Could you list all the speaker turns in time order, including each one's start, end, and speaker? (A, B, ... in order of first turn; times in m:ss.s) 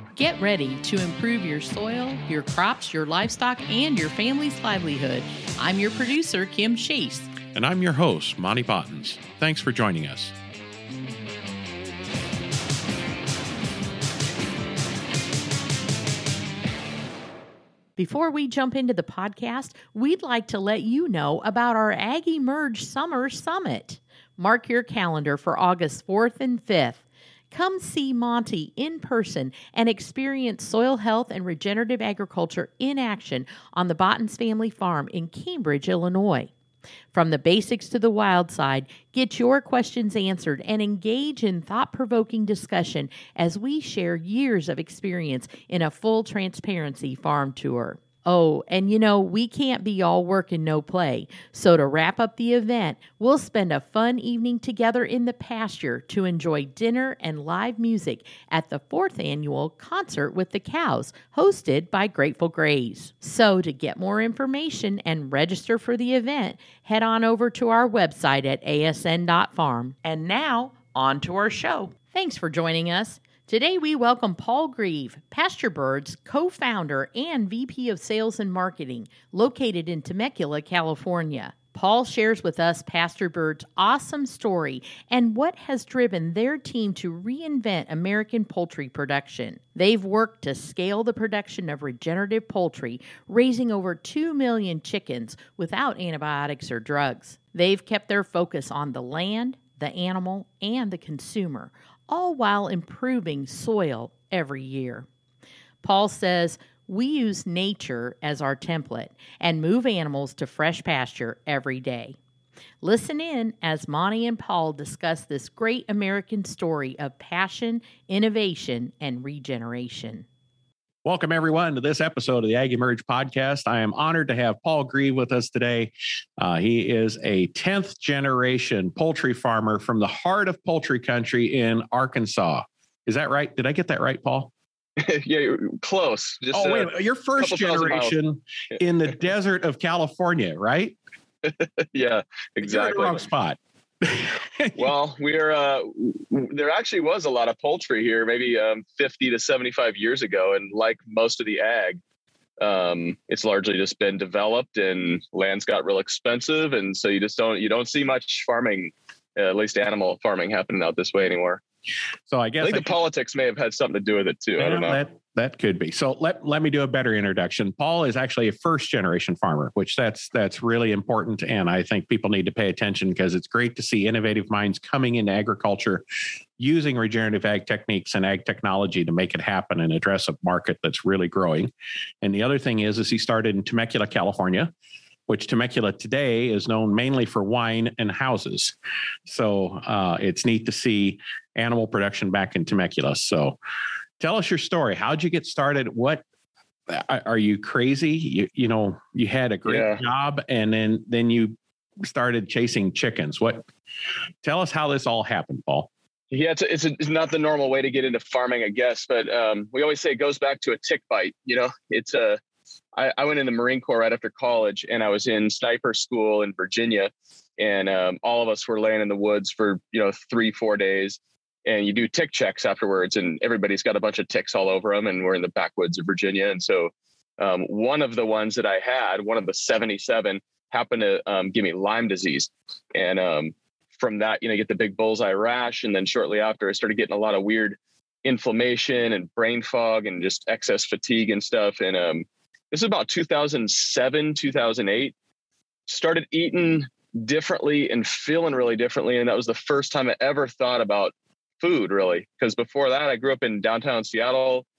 0:00.2-0:07.3 A
0:07.5-0:10.3 B
0:18.0-0:36.5 A
0:37.1-1:45.1 A
1:45.8-1:52.2 A
1:52.8-2:00.2 A
2:01.0-2:14.5 B
2:15.0-2:18.2 C
2:16.5-2:21.0 B
2:21.4-2:23.2 C
2:22.6-2:24.9 B
2:24.8-2:32.0 C
2:32.6-2:41.6 C
2:42.3-2:42.9 B
2:42.6-2:45.0 C
2:44.6-2:56.0 B
2:56.6-3:04.7 B
3:05.3-3:13.6 B
3:14.2-3:16.2 B
3:16.9-3:23.6 B
3:19.7-3:20.0 C
3:24.4-3:25.9 B
3:26.3-3:32.4 C
3:33.0-4:05.1 C
4:05.9-4:14.6 C